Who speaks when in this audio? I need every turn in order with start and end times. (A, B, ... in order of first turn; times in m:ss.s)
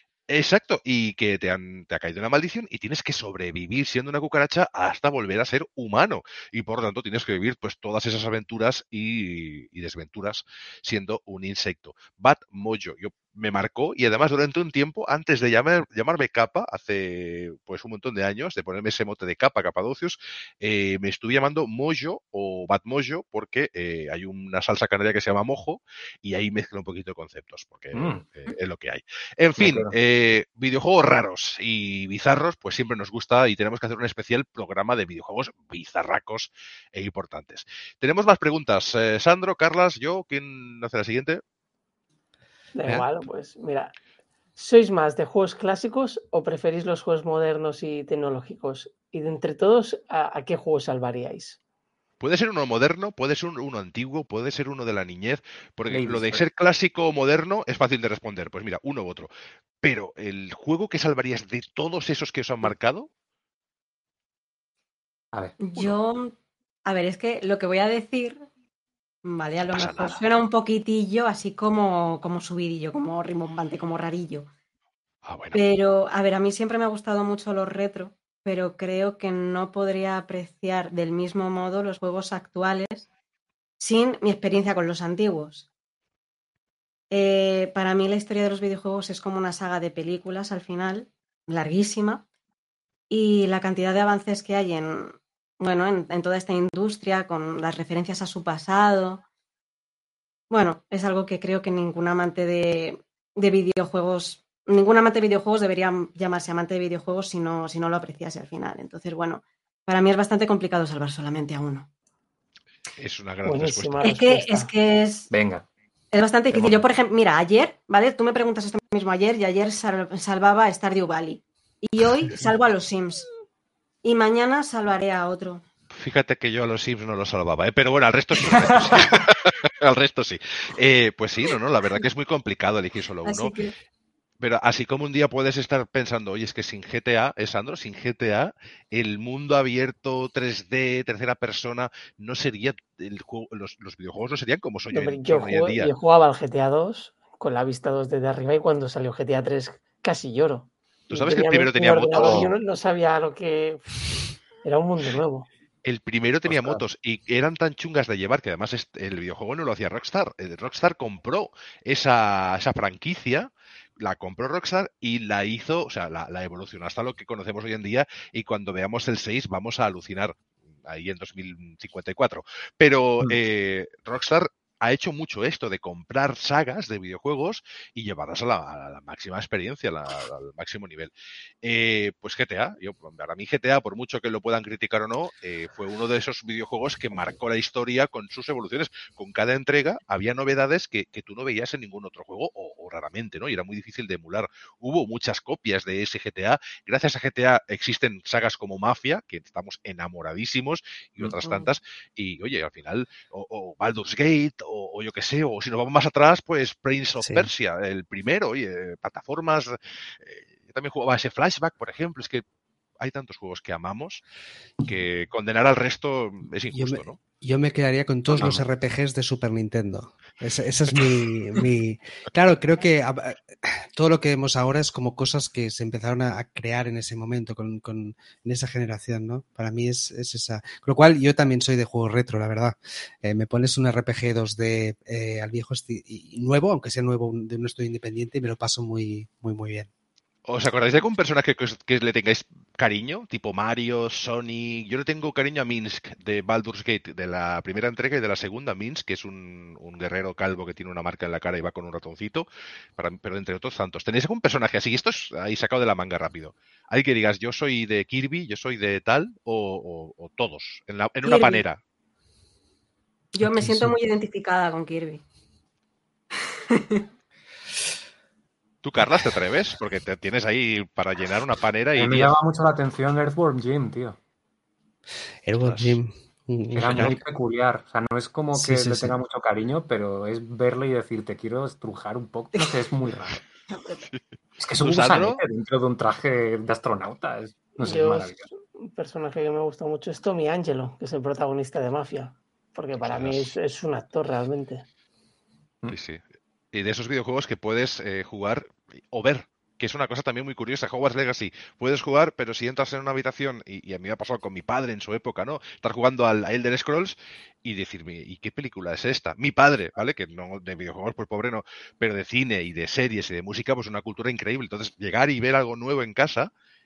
0:00.3-0:41.4 A
0:27.9-0:28.2 B
0:29.6-0:29.9 B
0:42.7-0:43.9 C
0:44.6-0:51.6 C
0:52.2-0:59.3 A
0:55.9-0:56.4 B
0:59.8-1:03.1 A
1:05.6-1:08.4 D
1:09.2-1:14.5 D
1:09.7-1:10.2 A
1:15.2-1:15.6 A
1:15.5-1:23.1 D
1:23.8-1:25.6 D
1:27.1-1:32.2 D
1:33.1-1:39.2 D
1:40.5-1:51.9 D
1:53.0-1:54.0 A
1:53.4-1:54.7 C
1:54.0-1:55.3 D
1:55.3-1:55.6 B
1:56.1-2:03.3 D
1:56.5-1:56.8 B
2:04.0-2:05.6 D
2:05.9-2:13.5 A
2:13.2-2:13.7 D
2:14.4-2:25.9 A
2:24.9-2:34.0 C
2:31.1-2:32.5 A
2:32.1-2:32.5 B
2:34.6-2:35.5 C
2:35.8-3:01.1 A
3:01.6-3:32.4 A
3:21.4-3:21.7 D
3:27.2-3:27.5 E
3:33.0-3:34.2 A
3:34.8-3:37.2 A
3:36.7-3:59.9 E
3:38.3-3:38.7 A
4:00.5-4:21.8 A
4:21.2-4:21.6 D
4:23.3-4:25.2 D
4:26.7-4:27.0 D
4:28.8-4:32.3 A
4:32.0-4:34.2 B
4:35.4-4:37.2 E
4:36.7-4:43.4 B
4:38.5-4:39.2 E
4:43.7-4:44.0 D
4:44.6-4:48.5 B
4:44.8-4:45.4 A
4:47.8-4:54.8 C
4:53.0-4:53.5 A
4:55.9-5:16.5 A